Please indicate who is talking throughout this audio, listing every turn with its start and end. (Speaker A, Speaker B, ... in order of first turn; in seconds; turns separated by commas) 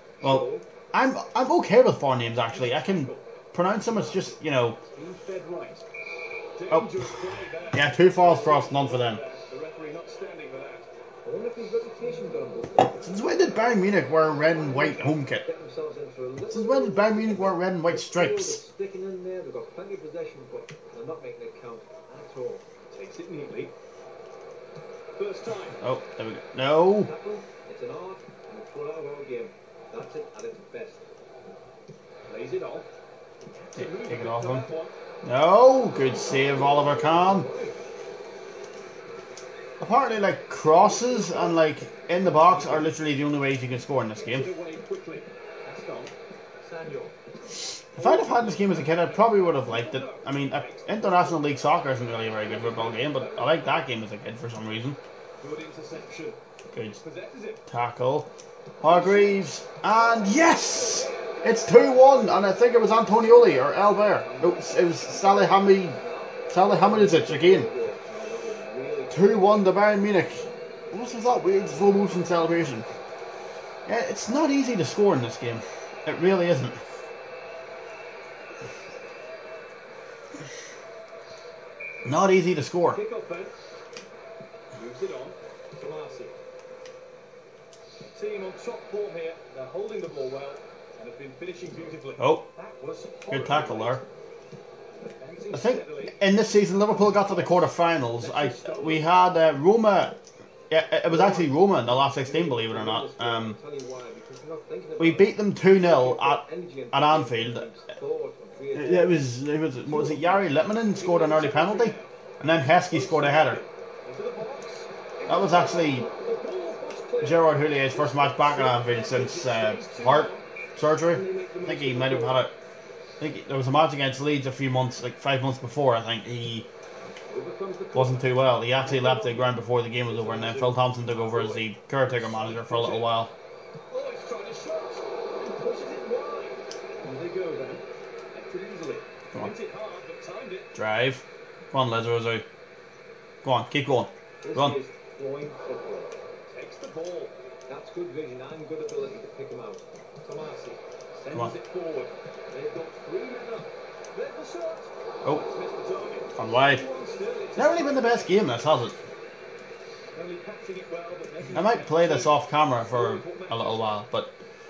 Speaker A: 0.2-0.7, Speaker B: 0.2-4.8, Speaker C: 2.5-3.2, Speaker C: 3.9-5.9, Speaker C: 6.6-10.9, Speaker B: 6.7-7.1, Speaker B: 7.7-9.2, Speaker A: 11.2-13.2, Speaker B: 13.0-15.4, Speaker A: 14.5-22.6, Speaker B: 16.5-18.6, Speaker C: 22.9-23.7, Speaker C: 25.2-25.8, Speaker B: 25.8-27.1, Speaker A: 27.0-31.1, Speaker C: 32.3-32.9, Speaker C: 33.6-34.9, Speaker B: 33.8-34.7, Speaker B: 35.2-37.5, Speaker A: 36.2-37.8, Speaker B: 39.8-44.5, Speaker C: 40.6-41.7, Speaker A: 42.4-43.0, Speaker C: 44.2-46.1, Speaker A: 46.6-47.2, Speaker B: 47.9-55.0, Speaker C: 48.0-51.7, Speaker C: 52.4-53.8, Speaker C: 55.4-56.4, Speaker B: 56.7-57.0, Speaker C: 57.0-57.6, Speaker B: 57.7-66.0, Speaker C: 58.9-59.4, Speaker C: 59.9-63.5, Speaker A: 63.4-69.8, Speaker B: 66.5-67.7, Speaker B: 69.1-72.9, Speaker B: 73.9-76.8, Speaker B: 82.0-83.0, Speaker C: 82.9-83.5, Speaker C: 84.7-86.3, Speaker C: 88.1-94.0, Speaker B: 92.2-92.5, Speaker B: 93.3-94.0, Speaker C: 94.9-96.2, Speaker B: 95.5-100.2, Speaker C: 96.8-99.1, Speaker B: 100.7-103.6, Speaker A: 101.1-109.3, Speaker B: 105.0-107.7, Speaker B: 108.7-113.6, Speaker C: 110.1-112.1, Speaker C: 112.7-120.5, Speaker B: 115.3-116.1, Speaker B: 117.2-122.5, Speaker C: 121.0-122.5, Speaker B: 123.2-126.7, Speaker C: 127.3-133.1, Speaker B: 127.9-133.3, Speaker C: 133.9-140.7, Speaker B: 140.8-142.5, Speaker B: 143.4-144.8, Speaker A: 144.4-146.2, Speaker C: 146.5-147.3, Speaker A: 147.7-150.8, Speaker C: 151.1-158.4, Speaker B: 156.4-156.8, Speaker B: 157.6-159.0, Speaker C: 160.2-164.0, Speaker B: 161.5-164.3